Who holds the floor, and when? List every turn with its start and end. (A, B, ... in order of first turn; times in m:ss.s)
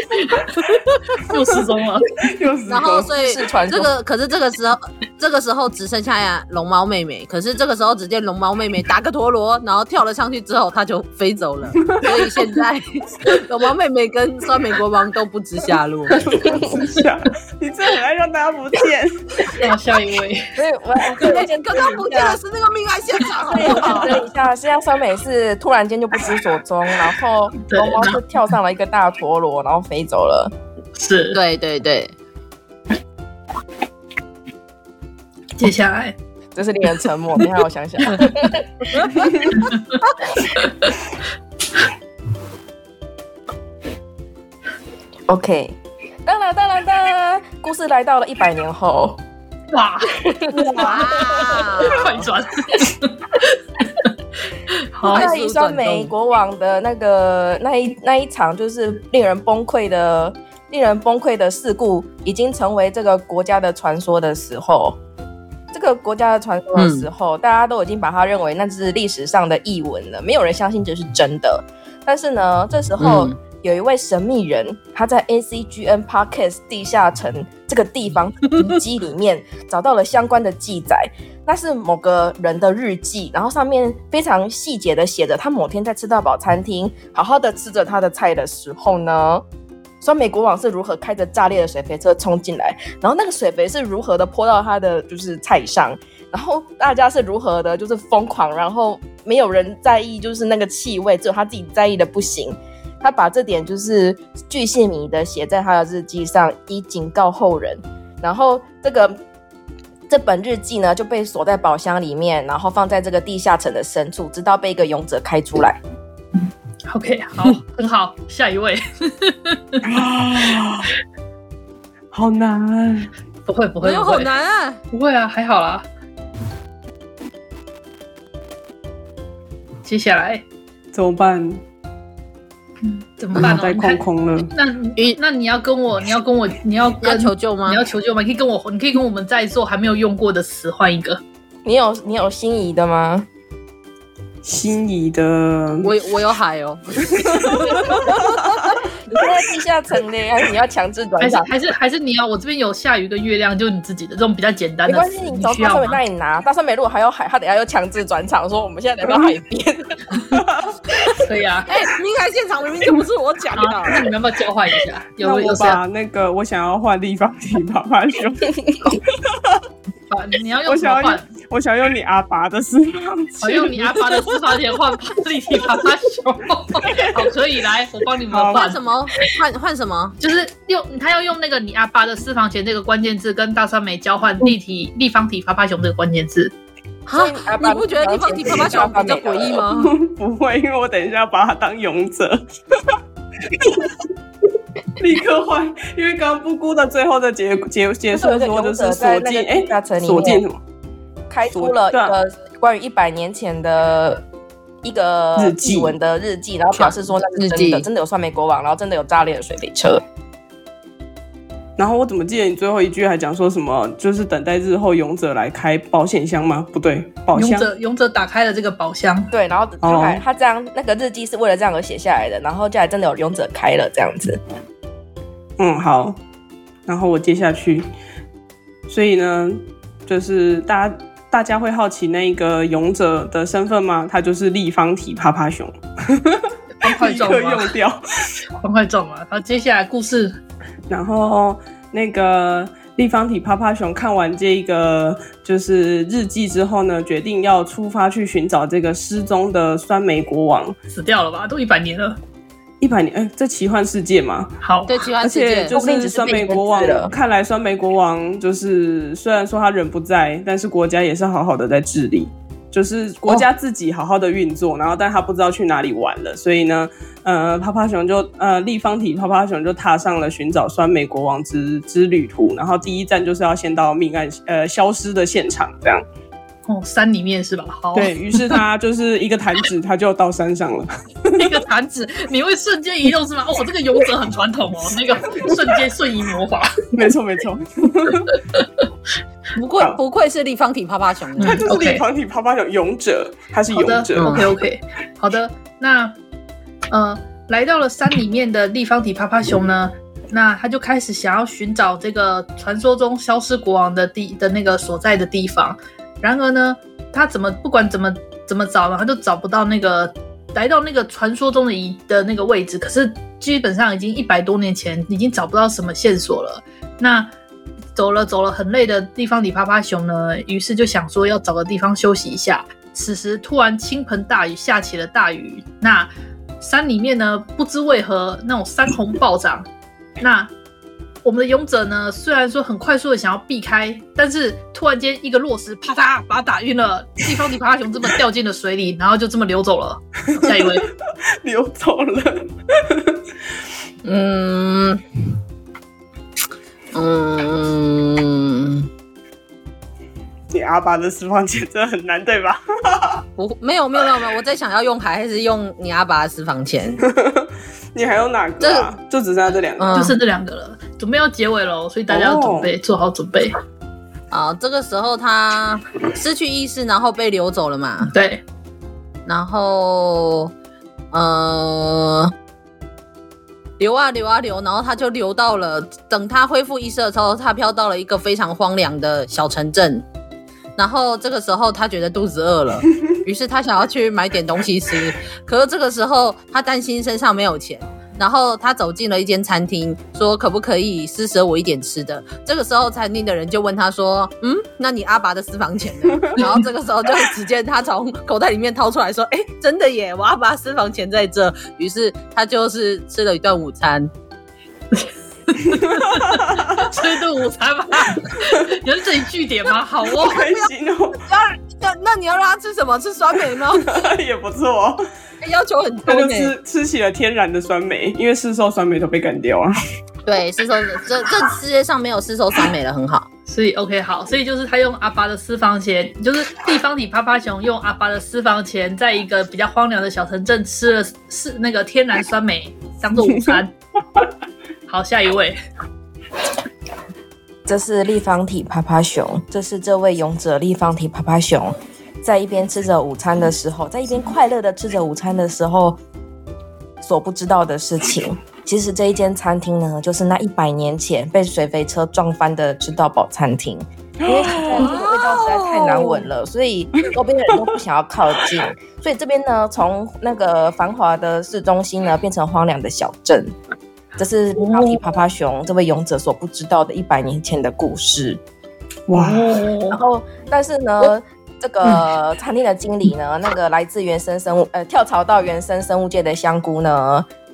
0:00.4-0:02.1 A
0:02.2-0:03.1 B
0:02.7-0:16.2 C
0:03.1-0:03.9 D
0:16.2-0:19.7 B
0:19.5-0:20.6 A
0:20.6-0:22.4 D
0:21.2-0:24.1 C
0:23.5-0:30.5 D
0:27.7-0:28.2 A
0:31.0-0:31.4 A
0:31.3-0:32.1 C
0:35.6-0:36.2 A
0:36.6-0:39.1 D
0:39.6-0:40.0 A
0:40.6-0:40.9 A
0:45.3-0:49.2 D
0:49.7-0:53.5 A
0:50.2-0:51.6 D
0:50.6-0:52.1 C
0:55.0-0:55.3 A
0:55.0-1:05.0 D
0:55.1-0:56.1 C
1:05.7-1:29.4 D
1:06.8-1:07.1 C
1:13.0-1:13.4 C
1:30.0-1:49.2 D
1:50.1-1:55.8 D
1:56.9-1:59.8 A
1:59.8-2:00.9 B
2:02.1-2:03.1 B
2:03.5-2:04.3 A
2:03.8-2:04.8 C
2:04.9-2:05.9 A
2:09.8-2:10.4 A
2:10.9-2:11.6 B
2:12.8-2:21.2 A
2:13.4-2:14.5 B
2:17.0-2:17.8 C
2:21.6-2:23.3 D
2:24.4-2:25.9 B
2:25.8-2:28.8 C
2:27.1-2:28.7 B
2:29.1-2:31.5 D
2:31.2-2:36.0 A
2:34.9-2:40.2 D
2:40.3-2:41.0 B
2:41.1-2:41.7 A
2:41.7-2:44.1 C
2:43.6-2:45.8 A
2:45.2-2:49.6 B
2:50.1-2:51.3 A
2:50.7-2:54.0 B
2:53.4-2:58.8 A
2:56.8-2:57.3 B
2:58.3-2:58.7 B
2:58.5-3:00.2 C
3:00.2-3:06.5 A
3:07.1-3:09.9 C
3:07.1-3:09.6 D
3:09.8-3:12.9 B
3:13.5-3:13.9 B
3:15.0-3:20.6 B
3:18.1-3:20.4 D
3:21.3-3:24.2 D
3:21.5-3:22.2 B
3:24.8-3:30.0 D
3:25.4-3:26.0 B
3:26.7-3:27.9 C
3:31.8-3:37.7 B
3:37.4-3:39.3 A
3:39.3-3:44.4 D
3:39.8-3:40.2 B
3:45.6-3:46.2 B
3:46.9-3:47.9 B
3:48.9-3:58.0 B
3:56.8-3:57.7 A
3:58.6-4:00.4 A
4:00.9-4:10.8 B
4:10.9-4:12.2 A
4:12.8-4:14.5 B
4:14.6-4:15.0 A
4:14.9-4:15.8 C
4:15.2-4:36.0 B
4:15.7-4:17.1 D
4:36.7-4:38.2 A
4:37.9-4:41.5 B
4:41.4-4:46.9 A
4:46.9-4:48.4 B
4:49.6-4:51.6 C
4:51.4-4:52.0 A
4:51.4-4:54.5 B
4:53.7-4:56.2 A
4:54.2-4:54.5 C
4:56.9-5:17.3 A
5:18.0-5:29.7 A
5:30.2-5:30.5 A
5:31.2-5:40.9 A
5:40.3-5:40.8 B
5:41.4-5:43.2 B
5:44.0-5:45.0 C
5:47.0-5:48.9 C
5:50.5-5:53.2 B
5:53.4-5:57.0 C
5:57.1-5:59.9 B
5:58.6-5:58.9 C
5:59.8-6:00.2 C
5:59.9-6:03.6 A
6:02.1-6:02.7 B
6:04.3-6:08.1 C
6:08.0-6:08.4 A
6:09.3-6:10.5 C
6:11.1-6:12.3 C
6:13.8-6:20.0 C
6:20.8-6:44.1 C
6:45.0-6:50.5 A
6:45.7-6:47.0 B
6:50.2-6:51.2 B
6:50.4-6:50.7 C
6:51.2-6:53.9 C
6:53.8-6:55.0 B
6:55.4-6:56.5 C
6:56.1-6:59.8 B
7:00.2-7:03.3 C
7:03.5-7:13.7 A
7:14.9-7:15.6 A
7:17.7-7:26.0 D
7:27.0-7:43.5 D
7:34.2-7:34.9 B
7:34.8-7:36.3 C
7:44.2-7:48.4 D
7:44.6-7:45.0 A
7:49.1-7:49.6 B
7:49.1-7:50.0 A
7:49.9-7:57.3 D